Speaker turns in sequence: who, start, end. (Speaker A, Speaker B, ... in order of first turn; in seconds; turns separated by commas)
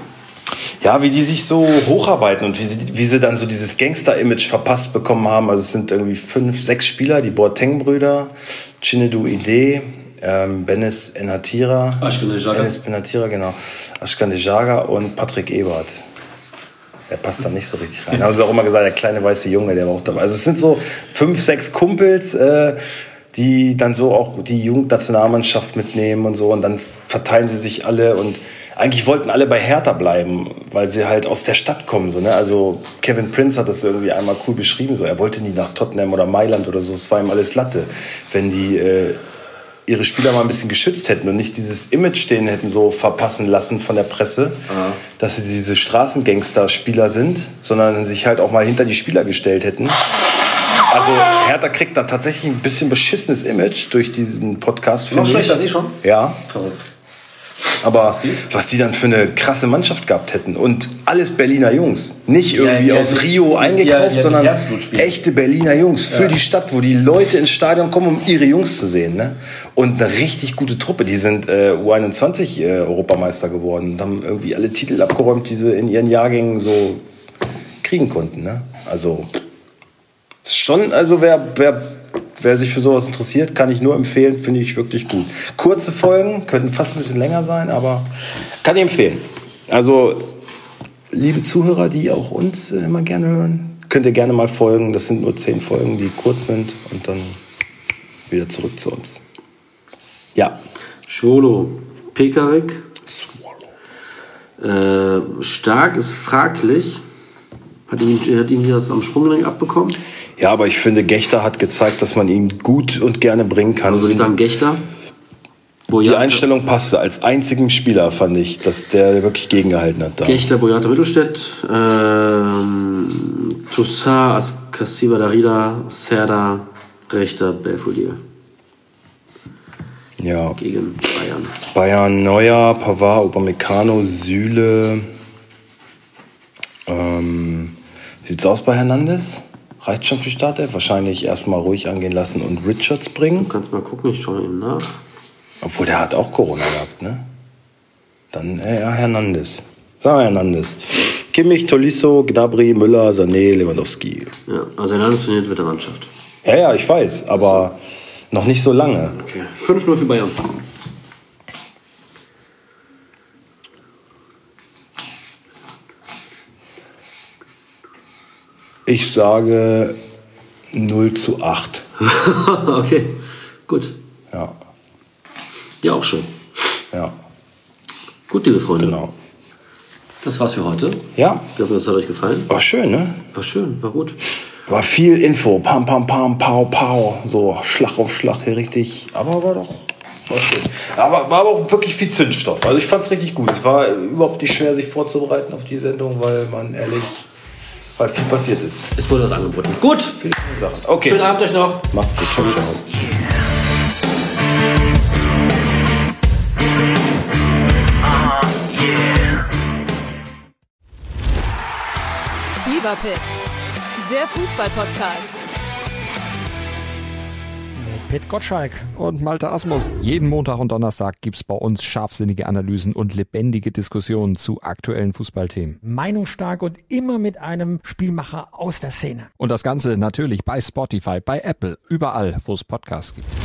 Speaker A: 0.8-16.0, Speaker B: 12.0-12.8, Speaker A: 17.1-22.8, Speaker A: 23.3-39.2, Speaker A: 39.9-50.0, Speaker B: 44.7-45.0, Speaker A: 50.9-56.4, Speaker B: 55.1-56.8, Speaker A: 57.8-77.0, Speaker B: 58.0-58.5, Speaker B: 62.5-65.2, Speaker B: 66.1-66.4, Speaker A: 77.8-79.3, Speaker A: 80.4-88.1, Speaker A: 88.6-90.4, Speaker A: 91.1-97.4, Speaker A: 98.3-99.2, Speaker B: 101.1-102.8, Speaker A: 103.1-103.3, Speaker B: 104.6-107.0, Speaker B: 107.9-110.0, Speaker A: 110.4-114.3, Speaker B: 113.8-114.8, Speaker B: 115.9-116.5, Speaker A: 116.0-120.4, Speaker B: 120.2-128.2, Speaker A: 130.2-130.6, Speaker B: 130.6-131.6, Speaker A: 131.7-135.1, Speaker A: 136.8-143.5, Speaker B: 143.3-144.9, Speaker A: 145.6-147.3, Speaker A: 148.3-154.3, Speaker B: 154.5-156.1, Speaker A: 156.4-157.8, Speaker B: 157.4-157.6, Speaker A: 158.3-159.2, Speaker B: 159.1-160.5, Speaker A: 168.8-170.0, Speaker A: 170.7-171.8, Speaker B: 172.0-173.9, Speaker B: 175.8-176.3, Speaker B: 178.3-179.0, Speaker A: 178.8-179.1, Speaker B: 180.2-182.5, Speaker A: 181.1-181.5, Speaker A: 182.5-183.2, Speaker B: 183.3-184.2, Speaker A: 184.7-197.3, Speaker A: 198.0-198.9, Speaker B: 199.0-200.2, Speaker A: 200.2-201.3, Speaker B: 201.0-201.9, Speaker A: 201.9-202.9, Speaker B: 202.4-202.8, Speaker C: 212.6-215.4, Speaker D: 217.8-218.9, Speaker E: 218.9-225.8, Speaker D: 225.8-229.3, Speaker E: 229.4-233.3